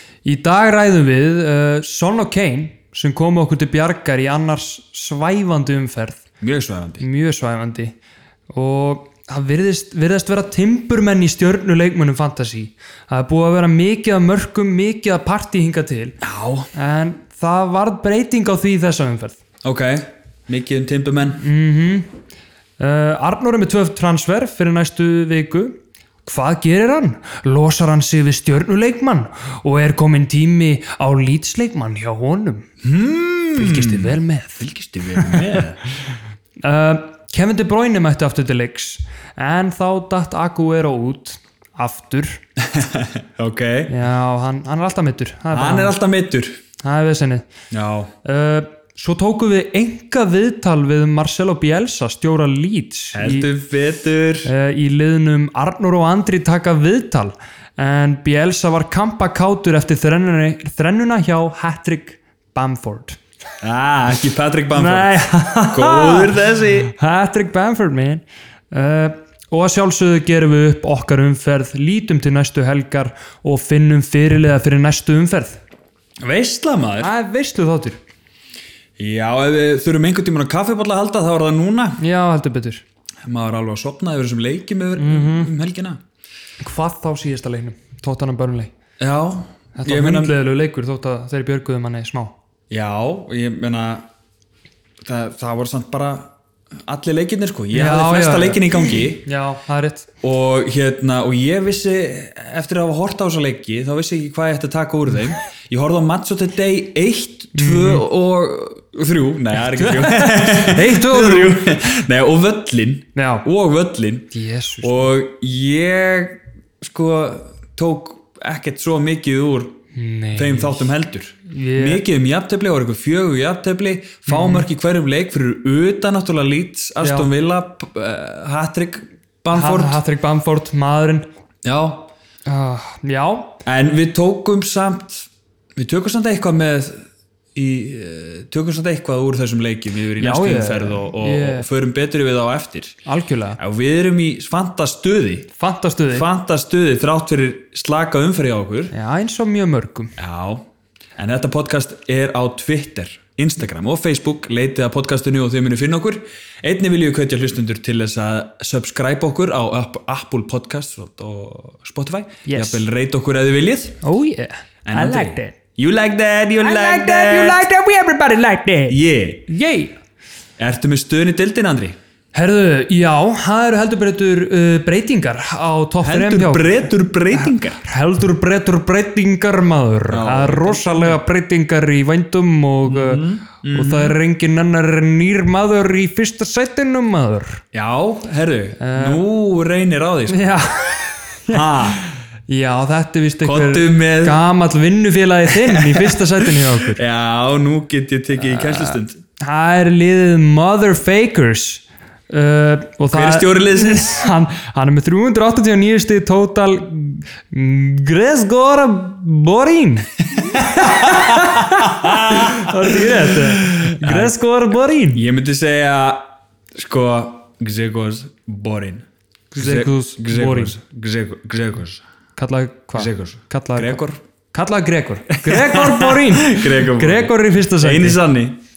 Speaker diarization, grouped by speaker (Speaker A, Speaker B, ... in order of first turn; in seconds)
Speaker A: 0.2-6.2, 7.0-7.9, 8.5-16.2, 16.7-19.4, 21.4-22.1, 22.8-32.7, 33.6-35.6, 36.6-42.4, 43.9-46.0, 46.8-47.5, 48.2-53.5, 54.4-63.2, 64.7-75.6, 77.0-78.0, 82.0-82.8, 85.0-85.5, 86.6-88.7, 89.8-92.3, 97.7-100.1, 107.6-108.0, 109.7-111.8, 113.2-113.5, 114.3-115.1, 119.9-120.9, 121.5-122.0, 124.3-124.7, 127.0-127.3, 129.5-131.3, 132.5-133.6, 140.2-141.7, 143.1-143.6, 145.6-146.3, 148.9-150.1, 162.4-162.8, 164.0-165.6, 166.6-170.0, 172.3-187.6, 188.8-189.2, 190.3-197.0, 198.4-215.2, 219.5-220.8, 222.4-228.2
Speaker B: 6.4-7.0, 16.2-16.7, 19.6-21.4, 32.8-35.8, 42.6-43.9, 45.5-46.6, 47.7-48.1, 53.1-54.5, 63.6-66.9, 76.2-77.1, 79.0-82.0, 83.2-86.0, 89.0-90.3, 92.7-94.1, 95.0-99.3, 100.2-119.8, 120.3-130.0, 131.6-132.1, 133.7-143.0, 143.6-145.5, 146.1-148.9, 150.2-164.0, 164.8-167.6, 168.9-169.4, 170.6-172.0, 176.0-177.8, 180.1-181.2, 182.8-184.2, 187.7-190.6, 191.5-192.1, 193.4-194.4, 195.5-199.2, 203.1-204.3, 210.5-214.4, 215.1-219.1, 219.6-222.0, 223.0-224.2, 225.4-228.6